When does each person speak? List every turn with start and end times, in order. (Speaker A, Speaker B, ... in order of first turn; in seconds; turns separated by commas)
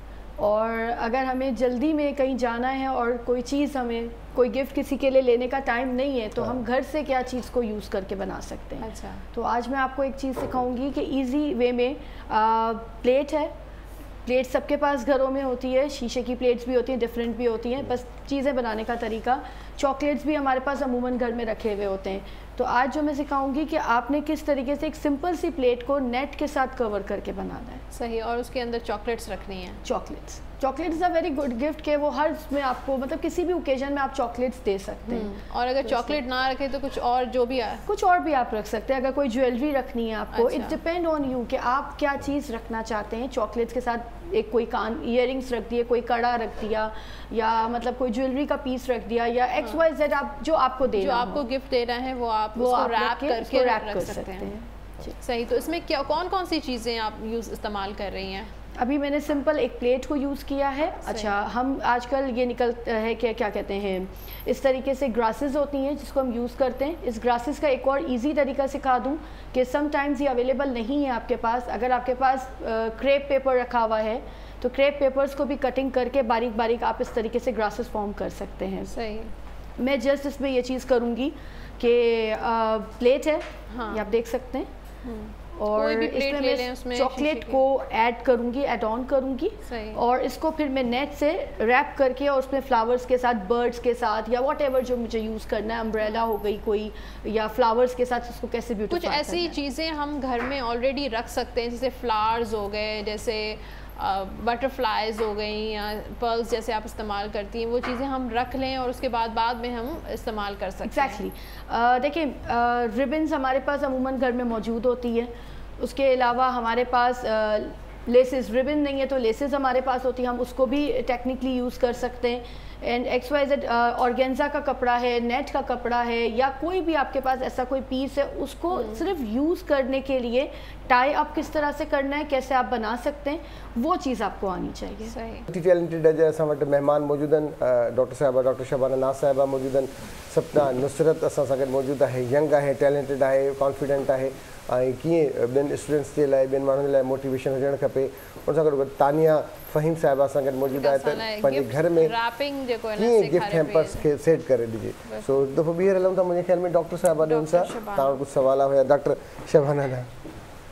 Speaker A: 0.4-13.5, Speaker B: 8.8-9.2, Speaker A: 14.2-27.8, Speaker B: 27.9-29.8, Speaker A: 29.8-36.2, Speaker B: 35.1-37.8, Speaker A: 37.9-51.5, Speaker B: 40.3-40.8, Speaker B: 51.0-54.5, Speaker A: 52.5-55.1, Speaker B: 55.2-58.5, Speaker A: 58.8-78.9, Speaker B: 61.0-61.3, Speaker B: 78.9-79.3, Speaker A: 79.8-84.7, Speaker B: 83.7-84.0, Speaker B: 85.0-87.6, Speaker A: 85.5-99.6, Speaker B: 89.6-90.0, Speaker B: 98.9-111.2, Speaker A: 110.8-135.2, Speaker B: 128.7-129.0, Speaker B: 135.0-135.5, Speaker C: 135.5-152.1, Speaker B: 150.7-154.1, Speaker C: 152.9-160.1, Speaker B: 157.2-158.2